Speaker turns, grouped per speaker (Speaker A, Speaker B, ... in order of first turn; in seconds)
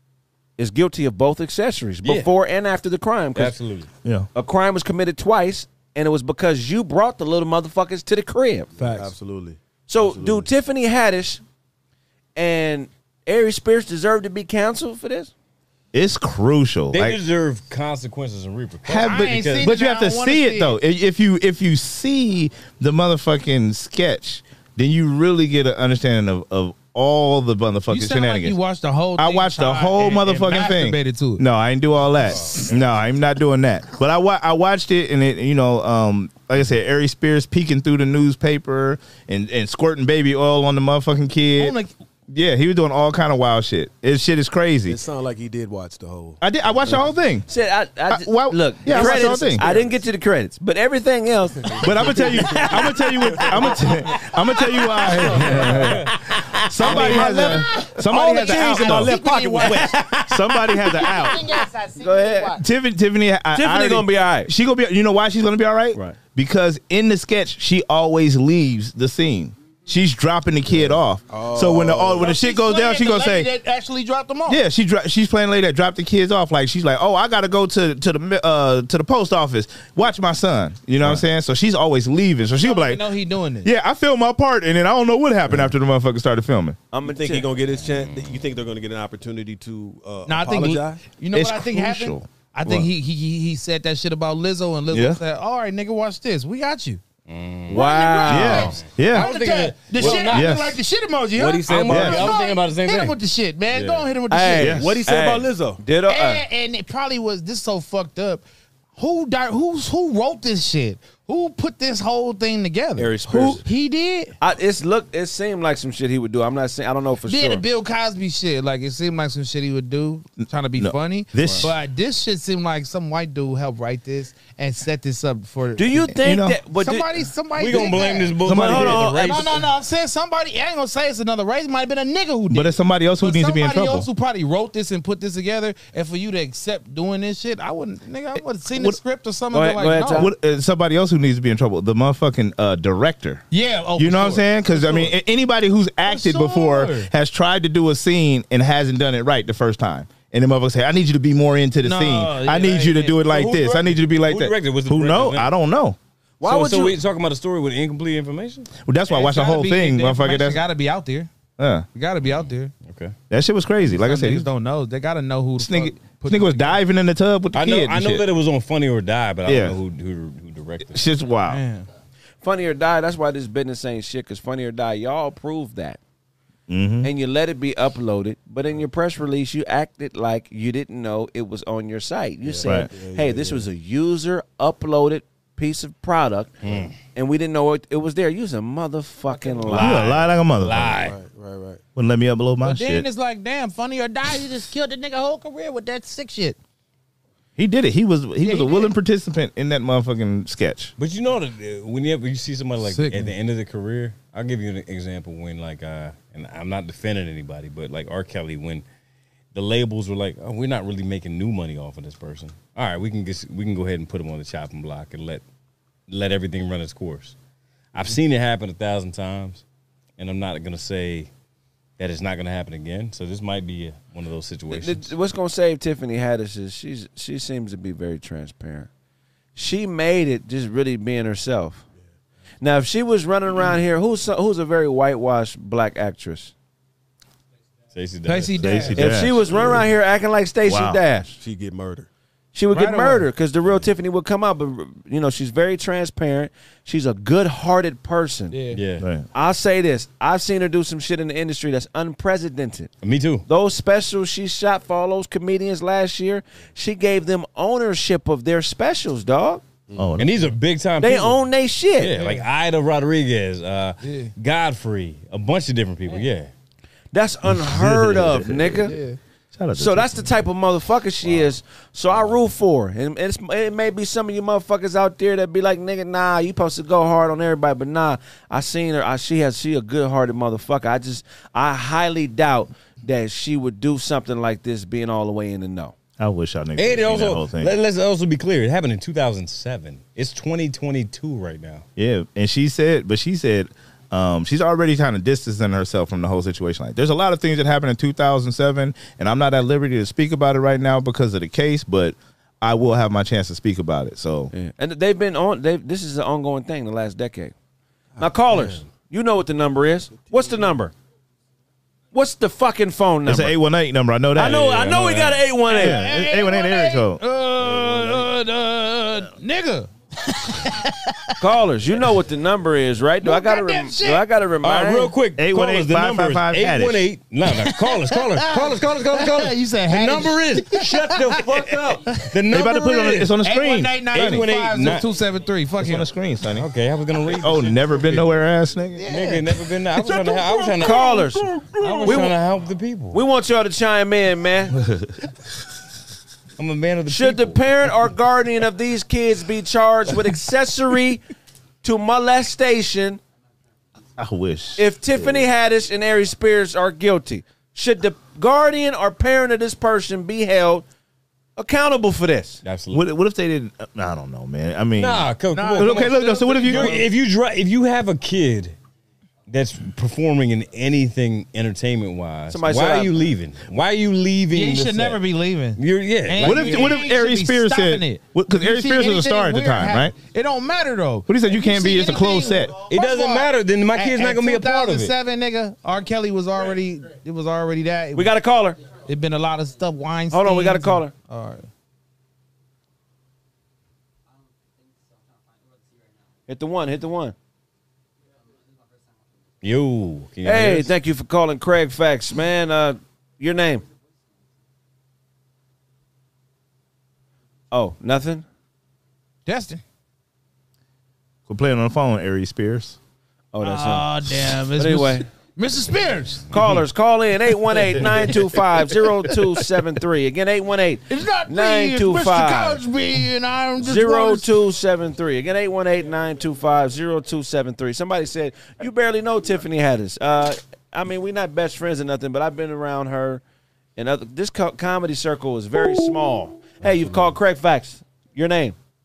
Speaker A: 0.6-3.5, 4.3-8.7, 9.9-11.4, 12.4-15.3, 46.9-51.8, 59.6-60.3, 62.0-62.6, 63.5-64.5, 86.9-87.5, 97.7-98.8, 104.3-106.5, 113.0-113.6, 114.4-117.6, 125.8-127.2, 128.5-129.4, 139.5-140.3, 156.4-156.9, 172.4-176.0, 177.0-186.6, 187.1-190.1, 224.7-228.9, 229.6-231.8, 232.6-236.5, 239.0-241.4, 242.5-248.6, 249.3-252.9, 253.5-259.6, 261.0-262.3, 267.1-268.9, 269.8-285.9, 304.5-307.5, 308.2-310.9, 312.1-313.6, 314.4-316.0, 321.4-325.1, 340.8-341.5, 342.1-342.3, 343.1-344.7, 347.1-351.2, 351.8-353.2, 354.8-360.9, 361.6-362.6, 372.5-373.2, 388.1-388.8, 390.3-391.1, 396.5-397.4, 400.4-403.8, 407.7-408.4, 413.5-415.2, 416.5-422.8, 423.8-433.4, 434.0-438.8
Speaker B: 2.0-2.3, 3.4-3.9, 16.9-19.7, 32.3-32.8, 87.8-88.5, 97.3-97.9, 99.1-100.6, 101.7-103.2, 103.7-104.1, 127.6-129.7, 153.2-155.5, 156.4-158.7, 162.2-163.2, 167.5-171.1, 186.6-186.9, 189.6-191.2, 201.0-208.8, 209.5-215.4, 216.1-217.4, 217.9-219.6, 220.2-221.3, 222.0-225.1, 237.9-239.0, 248.7-249.1, 253.0-253.5, 260.2-261.4, 262.0-266.5, 286.8-291.9, 324.6-333.3, 334.1-335.1, 336.6-338.3, 339.1-343.2, 346.6-347.9, 362.6-363.1, 365.0-368.8, 369.5-375.2, 375.8-377.0, 382.9-385.1, 399.6-400.9
Speaker C: 8.8-10.5, 44.9-46.4, 48.9-50.0, 51.7-53.8, 55.3-55.8, 56.8-60.1, 70.7-72.4, 87.0-91.0, 100.0-100.3, 101.4-102.3, 104.7-105.8, 182.4-183.7, 191.0-191.8, 239.6-239.8, 241.4-242.1, 308.2-308.9, 317.6-318.3
Speaker D: 15.9-17.2, 18.9-28.6, 29.2-41.8, 42.3-45.0, 46.4-47.5, 48.1-49.6, 51.8-56.1, 56.7-59.2, 60.3-61.5, 62.6-73.5, 74.5-83.0, 83.6-86.8, 91.3-92.9, 94.9-95.2, 98.3-99.3, 100.1-100.8, 101.9-102.3, 104.6-104.9, 113.3-113.6, 120.8-121.7, 126.2-126.6, 128.4-129.1, 132.5-134.1, 138.7-139.0, 140.1-143.4, 144.0-156.0, 158.9-160.6, 161.6-161.9, 163.3-164.5, 165.6-168.2, 169.4-169.8, 170.9-171.6, 176.7-177.1, 182.6-182.9, 189.7-191.0, 192.0-193.1, 197.6-200.9, 238.6-239.6, 240.7-241.0, 249.0-249.3, 260.0-260.4, 267.5-268.8, 269.5-270.4, 286.2-287.8, 292.0-304.5, 313.3-317.2, 325.4-327.0, 332.5-334.5, 335.8-336.7, 337.3-339.1, 344.8-345.1, 354.2-355.5, 362.9-367.0, 376.4-380.1, 381.3-382.7, 411.5-413.0
Speaker E: 19.0-20.8, 27.9-31.4, 41.6-41.9, 56.8-60.0, 60.8-62.6, 72.2-74.6, 82.6-83.7, 90.3-97.0, 97.7-104.8, 106.1-108.4, 109.0-114.3, 117.3-126.2, 126.7-140.3, 143.5-145.1, 146.1-147.1, 151.8-153.2, 159.1-161.3, 161.9-162.7, 163.8-166.8, 171.5-171.9, 192.6-196.6, 198.4-198.9, 202.8-203.3, 238.2-239.2, 242.7-243.3, 248.5-248.8, 264.0-264.3, 268.9-269.2, 315.7-321.3, 323.2-324.2, 327.6-332.2, 333.3-336.1, 339.0-339.4, 340.1-340.7, 365.5-367.1, 374.5-388.3, 389.1-391.7, 409.5-409.8, 413.6-416.5, 421.1-424.5